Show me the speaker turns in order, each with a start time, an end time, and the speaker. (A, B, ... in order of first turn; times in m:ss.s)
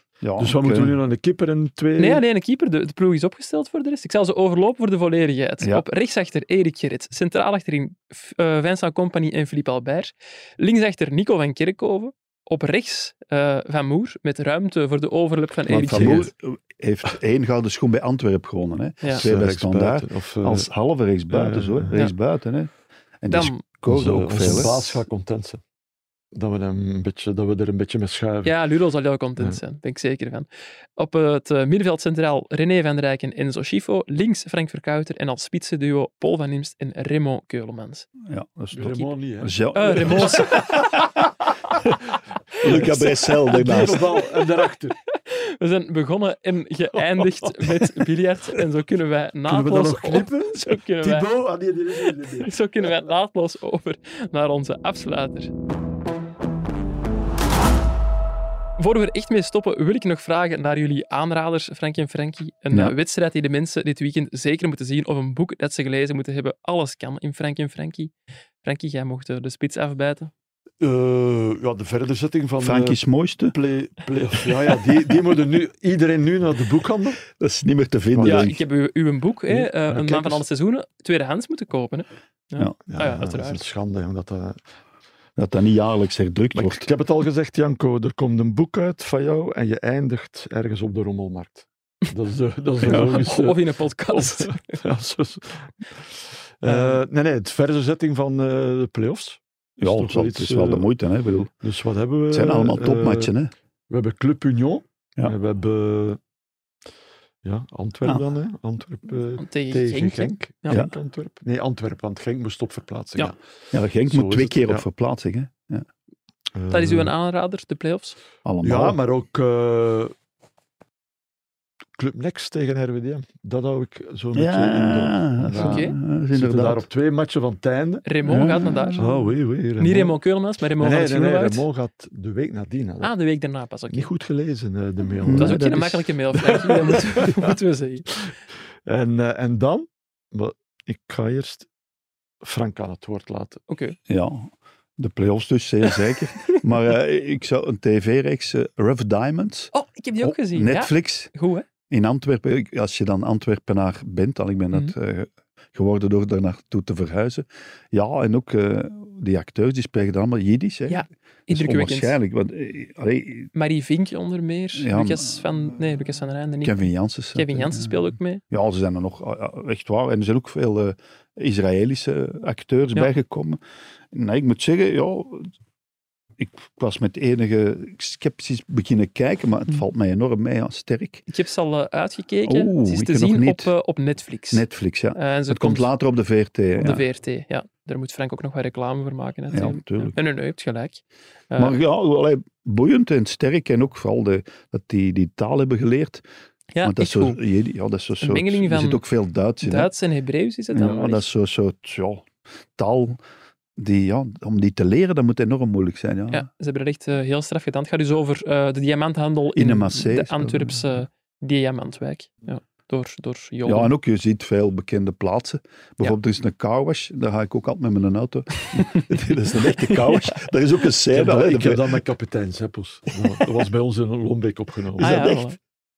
0:00.2-0:01.0 A
0:00.4-0:02.2 B
0:02.0-0:16.3 C
0:15.7-0:22.7 A
0:15.7-0:16.3 B
0:19.2-0:20.7 B
0:21.3-0:21.9 B
0:23.2-0:25.0 A
0:23.3-0:23.6 C
0:23.9-0:25.6 B
0:24.4-0:24.8 C
0:26.3-0:28.5 B
0:28.4-0:38.1 C
0:38.2-0:41.2 A
0:38.7-0:40.6 B
0:39.7-0:41.0 C
0:42.6-0:44.1 A
0:42.6-0:45.0 B
0:42.7-0:44.0 C
0:45.1-0:51.3 C
0:46.9-0:48.1 B
0:49.5-0:52.6 B
0:52.0-0:55.5 C
0:58.8-1:10.3 C
1:10.8-1:17.2 B
1:12.6-1:13.5 A
1:17.3-1:18.6 A
1:18.1-1:18.5 B
1:18.2-1:23.6 C
1:19.5-1:20.4 B
1:22.9-1:24.6 B
1:25.4-1:26.9 A
1:26.5-1:33.6 B
1:32.8-1:34.8 C
1:34.1-1:40.9 B
1:36.6-1:37.0 C
1:39.8-1:41.5 A
1:41.6-1:43.3 B
1:42.3-1:43.5 A
1:43.9-1:46.2 B
1:47.4-1:53.4 B
1:49.4-1:50.8 C
1:50.7-1:50.9 A
1:53.7-1:55.9 A
1:54.0-1:54.8 B
1:56.5-1:57.1 B
1:56.7-1:58.2 C
1:58.4-1:59.0 A
1:58.6-2:00.1 B
2:02.0-2:08.4 B
2:04.3-2:06.8 A
2:05.5-2:06.0 C
2:08.0-2:09.0 C
2:08.3-2:09.3 A
2:09.0-2:10.2 B
2:09.8-2:11.6 C
2:10.8-2:13.1 B
2:13.0-2:14.1 C
2:13.9-2:17.5 B
2:15.2-2:15.6 A
2:15.3-2:18.1 C
2:18.8-2:21.7 B
2:22.4-2:23.6 B
2:23.7-2:24.0 C
2:24.1-2:31.3 A
2:29.7-2:31.6 C
2:31.9-2:43.5 A
2:40.9-2:42.2 C
2:43.5-2:48.4 C
2:44.7-2:45.6 A
2:46.6-2:53.6 A
2:54.1-2:55.5 A
2:56.4-3:01.2 A
3:01.3-3:05.9 C
3:02.4-3:03.7 A
3:04.5-3:07.0 A
3:06.7-3:11.8 C
3:09.5-3:10.2 A
3:11.6-3:16.2 A
3:16.7-3:17.4 C
3:16.8-3:19.9 A
3:18.2-3:19.0 C
3:19.6-3:21.2 C
3:20.7-3:23.2 A
3:23.8-3:26.5 A
3:26.3-3:33.9 C
3:29.5-3:31.0 A
3:33.6-3:42.0 A
3:38.8-3:39.1 C
3:39.9-3:40.2 C
3:41.1-3:45.2 B
3:45.0-3:45.5 A
3:45.0-3:45.6 C